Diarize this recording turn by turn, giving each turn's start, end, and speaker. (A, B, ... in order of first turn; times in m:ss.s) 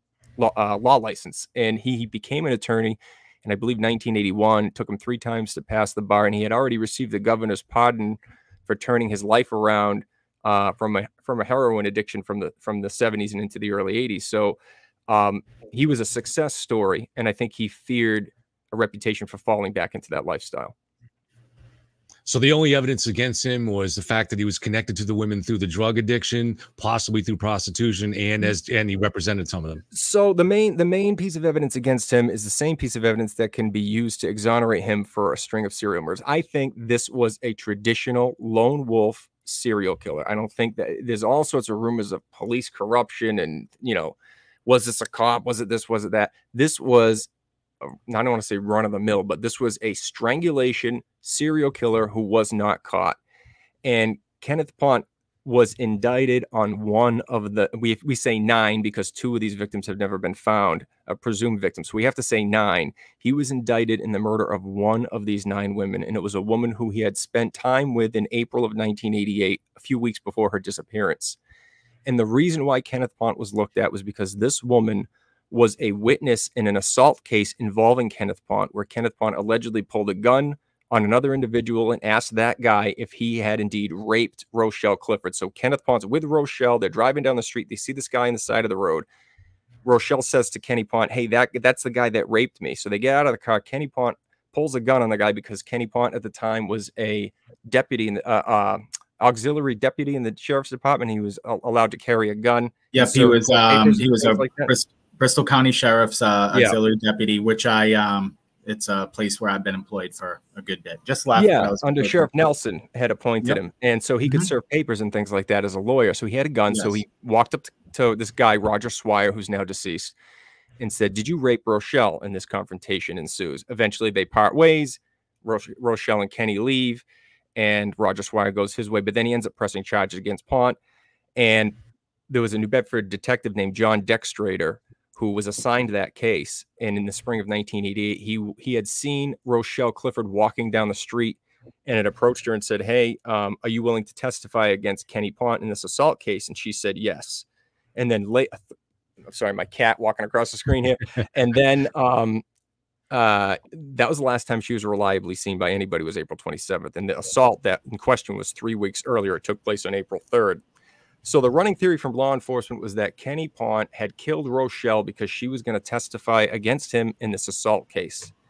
0:00.4-0:20.7 A
0:22.2-0:29.8 B
0:29.9-0:47.3 A
0:47.8-0:53.2 A
0:53.8-1:11.4 A
1:12.0-1:29.0 A
1:29.8-1:44.7 A
1:42.9-1:52.3 C
1:46.5-1:46.8 A
1:51.3-2:00.1 A
1:54.2-1:54.5 C
1:56.7-1:57.0 C
2:00.8-2:07.0 A
2:07.6-2:10.8 A
2:11.4-2:11.8 A
2:12.3-2:27.4 A
2:28.0-2:28.7 A
2:29.3-2:32.4 A
2:33.1-2:40.6 A
2:41.2-2:48.3 A